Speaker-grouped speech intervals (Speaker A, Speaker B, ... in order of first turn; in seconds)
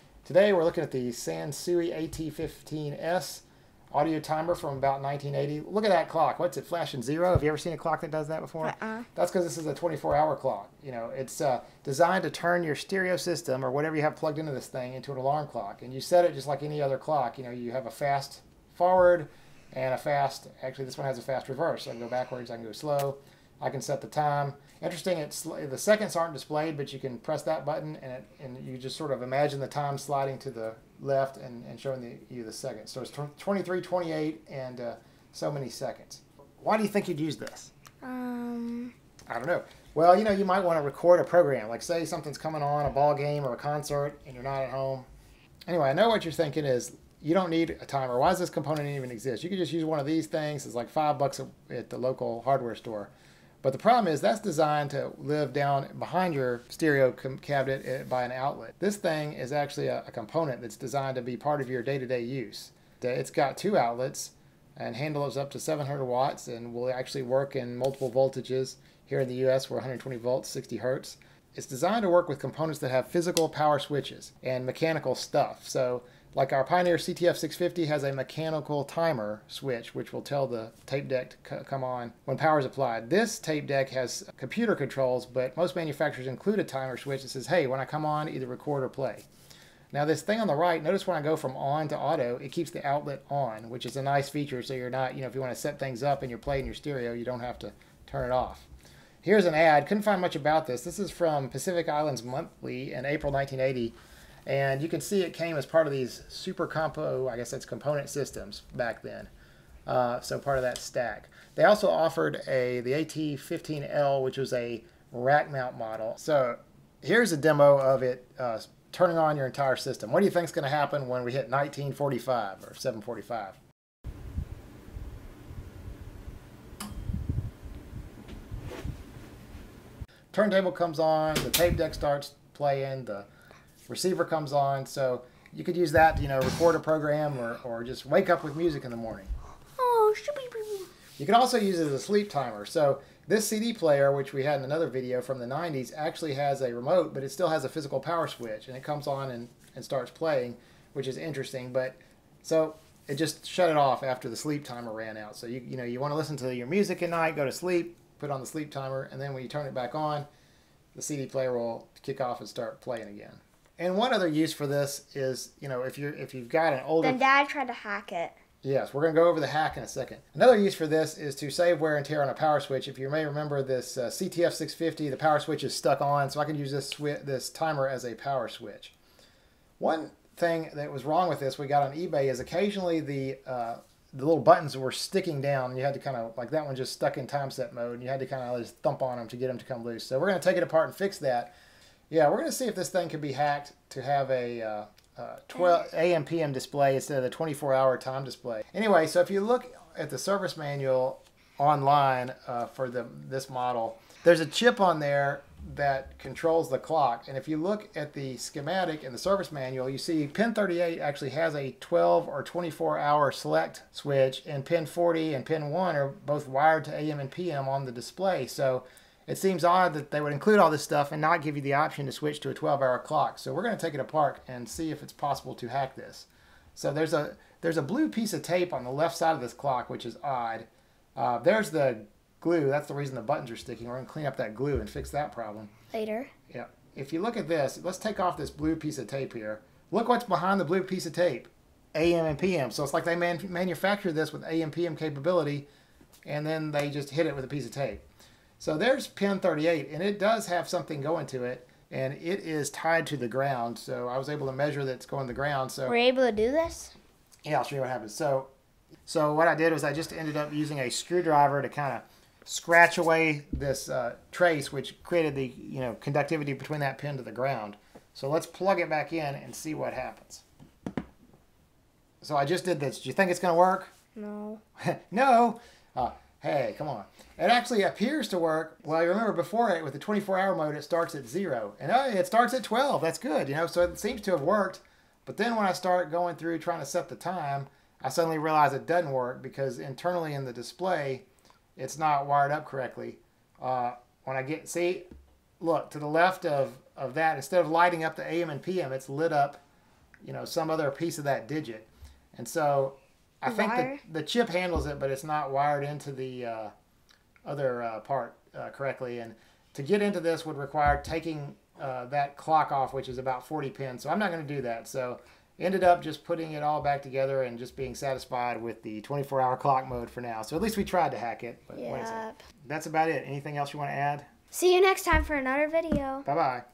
Speaker A: 0.2-37.7, 39.3-45.1, 45.7-53.1, 53.6-89.2, 89.9-98.7, 99.2-103.9, 104.5-109.3, 109.8-123.6, 130.3-133.3, 133.9-139.3, 141.2-160.2, 160.9-167.2, 168.6-178.9, 179.8-191.5, 192.1-235.7, 236.5-245.7, 246.2-248.0, 248.6-256.0, 257.4-258.5, 259.1-270.4, 272.2-273.9, 274.8-295.0, 295.6-299.6, 300.2-306.7, 307.4-324.3, 326.2-326.6
Speaker B: 8.6-9.0, 38.0-38.9, 139.8-140.9, 167.0-168.3, 235.9-236.3, 255.9-256.9, 274.1-274.6, 303.4-304.0, 321.7-322.4, 324.5-326.3